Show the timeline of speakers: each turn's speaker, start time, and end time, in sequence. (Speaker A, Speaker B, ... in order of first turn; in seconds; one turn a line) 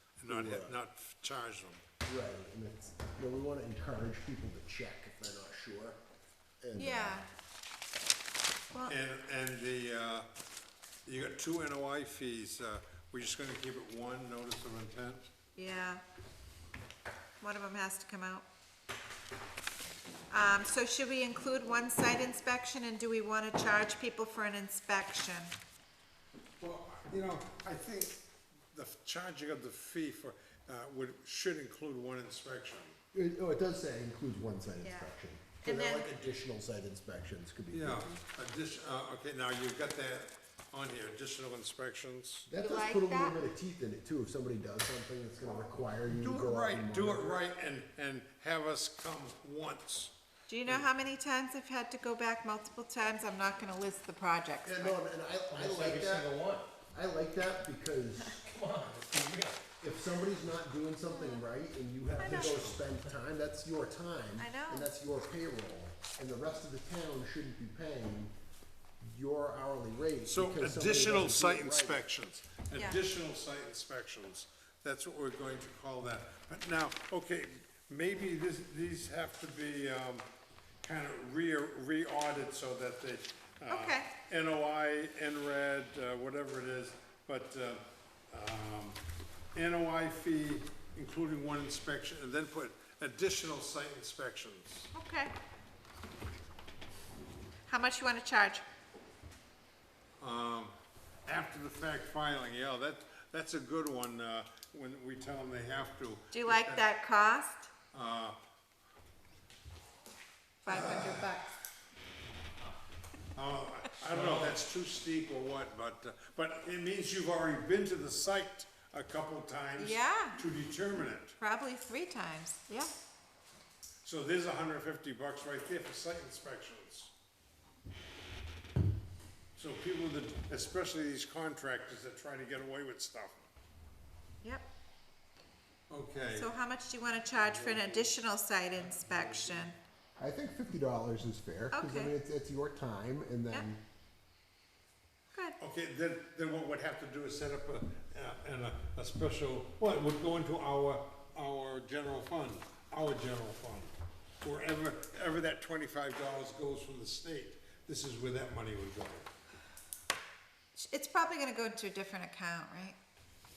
Speaker A: 0.2-1.8
Speaker B: 0.2-0.8
Speaker B: 2.0-6.0
Speaker B: 6.6-7.2
Speaker C: 6.8-7.3
Speaker A: 8.9-10.2
Speaker A: 11.1-15.3
Speaker C: 15.5-16.0
Speaker C: 17.4-18.4
Speaker C: 20.3-25.5
Speaker A: 26.6-28.2
Speaker A: 28.7-33.0
Speaker B: 33.1-38.2
Speaker C: 34.8-35.1
Speaker C: 35.6-36.1
Speaker A: 37.7-42.5
Speaker B: 42.5-47.4
Speaker C: 42.6-43.4
Speaker A: 46.1-50.1
Speaker C: 50.5-55.0
Speaker B: 54.6-56.3
Speaker D: 55.5-56.7
Speaker B: 56.9-58.4
Speaker D: 58.4-59.7
Speaker B: 59.8-68.3
Speaker C: 61.1-61.4
Speaker C: 62.2-62.8
Speaker A: 62.2-62.8
Speaker C: 64.4-64.9
Speaker B: 69.0-72.0
Speaker A: 70.3-80.2
Speaker C: 72.7-73.0
Speaker A: 80.8-89.0
Speaker C: 83.7-84.1
Speaker A: 89.5-94.9
Speaker C: 94.9-95.3
Speaker C: 97.7-98.6
Speaker A: 100.2-100.7
Speaker A: 101.2-106.8
Speaker C: 106.3-107.7
Speaker A: 107.9-108.4
Speaker C: 110.6-111.6
Speaker A: 110.7-111.4
Speaker A: 113.3-121.3
Speaker D: 114.1-114.6
Speaker C: 119.8-120.4
Speaker C: 121.4-122.9
Speaker A: 124.0-127.1
Speaker A: 129.6-133.4
Speaker A: 135.9-136.5
Speaker C: 136.3-139.8
Speaker A: 137.4-138.1
Speaker A: 138.9-139.7
Speaker B: 140.2-143.8
Speaker C: 141.7-142.1
Speaker A: 145.6-159.3
Speaker C: 160.7-163.0